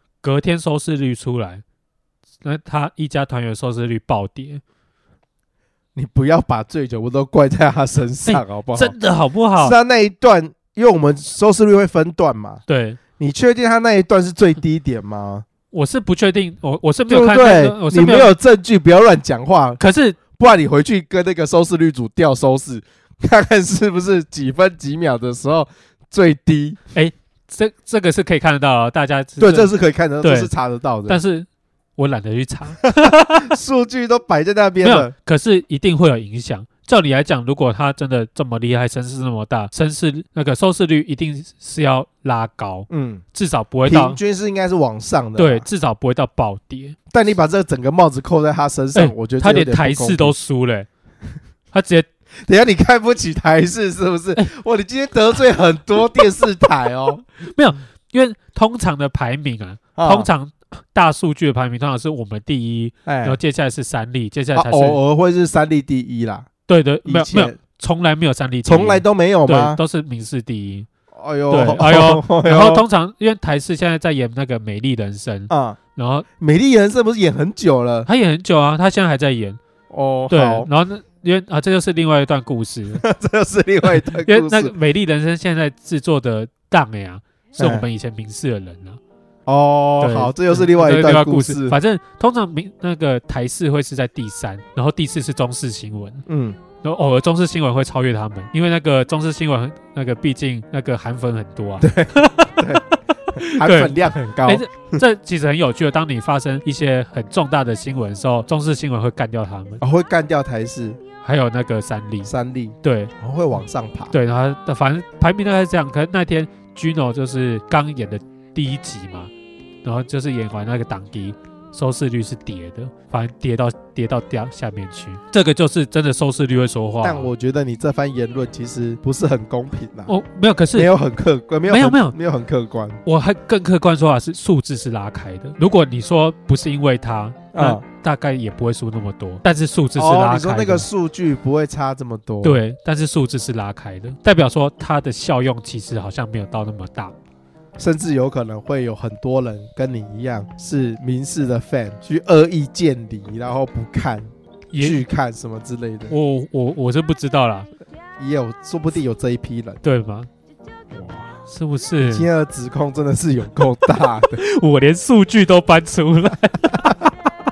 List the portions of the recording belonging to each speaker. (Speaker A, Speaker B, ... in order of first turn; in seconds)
Speaker A: 0.2-1.6, 2.4-4.6, 8.3-9.8, 12.7-13.0, 15.7-18.3, 19.8-20.2, 26.9-30.5, 31.1-33.5, 34.8-44.2, 45.4-47.0, 49.0-50.9, 51.7-52.1, 57.4-65.0, 66.7-70.9, 71.5-76.3, 78.1-79.6, 80.3-83.0, 83.9-89.0, 90.0-96.2, 96.8-102.6, 103.3-103.9, 104.5-109.8, 111.2-112.3, 112.8-113.1, 114.1-119.3, 119.8-127.3, 130.1-130.9, 131.7-132.2, 133.1-140.9, 142.4-147.2, 154.7-155.0, 156.1-157.7, 159.8-160.3, 161.5-162.3, 164.3-167.1
Speaker B: 6.0-8.9, 9.6-12.6, 13.2-15.4, 17.1-19.8, 20.4-26.8, 29.4-31.2, 32.8-35.1, 42.9-43.2, 43.9-45.6, 47.1-50.4, 52.4-57.2, 60.0-60.3, 63.1-63.4, 64.5-66.5, 67.1-67.6, 68.7-69.8, 71.1-72.8, 75.5-75.8, 76.4-78.1, 79.9-80.7, 83.0-84.7, 87.6-87.9, 89.5-91.8, 96.3-96.6, 101.8-102.8, 103.4-105.0, 109.8-111.0, 112.2-114.1, 127.0-130.1, 130.7-133.0, 137.5-137.8, 140.0-142.6, 147.8-156.1, 158.2-159.8, 160.9-161.4, 162.1-164.4